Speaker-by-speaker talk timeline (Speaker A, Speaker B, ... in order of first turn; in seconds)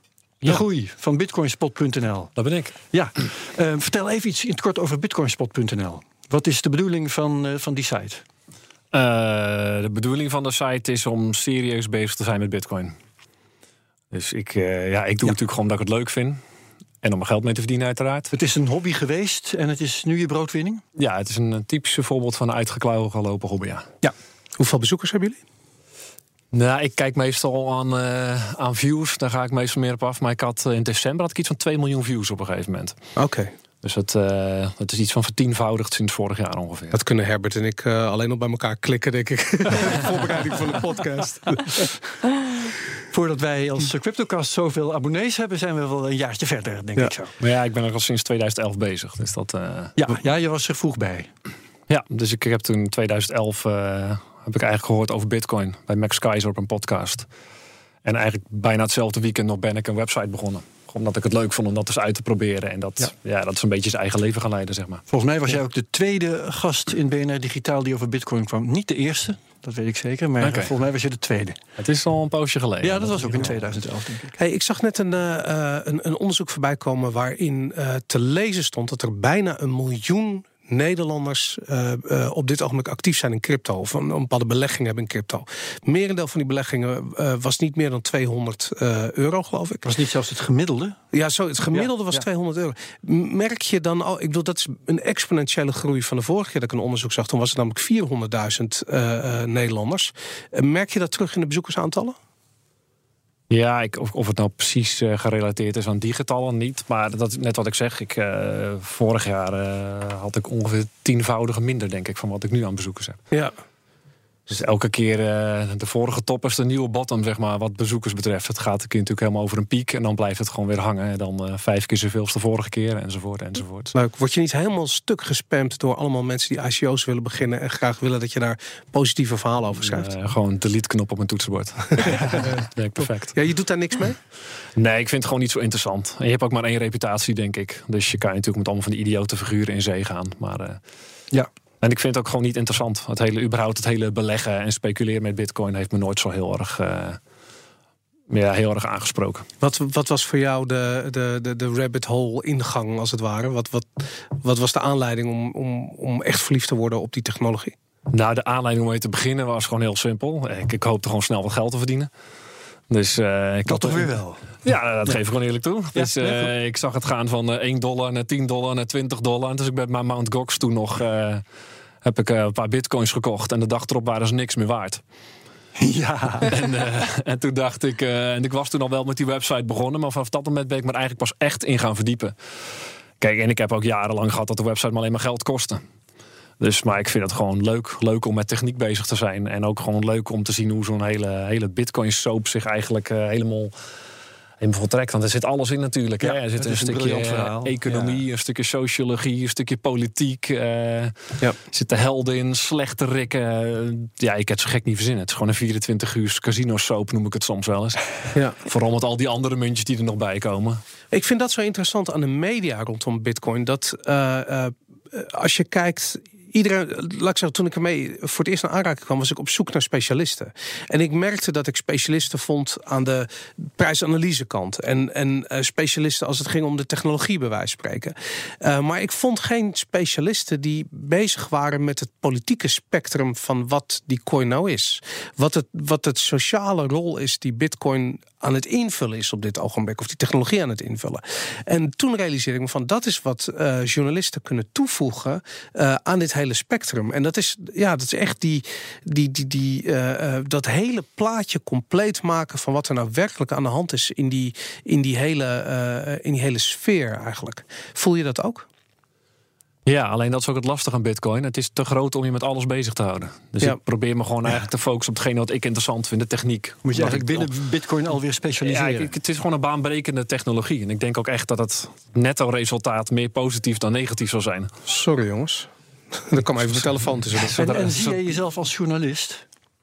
Speaker A: 0.4-2.4, 2.9-8.2, 18.3-20.8, 43.1-47.3, 50.0-51.3, 65.1-71.6, 72.8-74.3, 89.8-91.0, 91.7-92.2, 163.7-164.5, 165.9-166.5, 175.8-176.6, 196.2-198.2, 266.8-269.1, 277.5-279.4
Speaker B: 2.4-2.8, 8.9-12.9, 14.1-16.4, 17.0-18.3, 20.9-23.9, 26.5-33.0, 33.8-37.0, 47.4-50.0, 51.9-57.3, 58.0-65.0, 70.4-70.7, 71.8-73.7, 103.5-113.2, 114.5-123.9, 129.8-133.3, 134.8-140.8, 141.8-147.2, 148.3-149.4, 158.1-162.1, 162.9-164.1, 164.6-171.4, 172.0-175.0, 176.5-182.3, 183.2-185.8, 186.6-193.7, 194.6-201.1, 201.7-210.8, 259.9-267.5, 268.6-274.7, 277.4-278.2
Speaker C: 24.6-25.4, 33.1-33.5, 36.9-41.9, 74.3-89.8, 91.1-102.2, 123.9-130.1, 132.0-134.2, 149.6-157.8, 211.1-258.6, 274.9-275.7, 276.2-277.9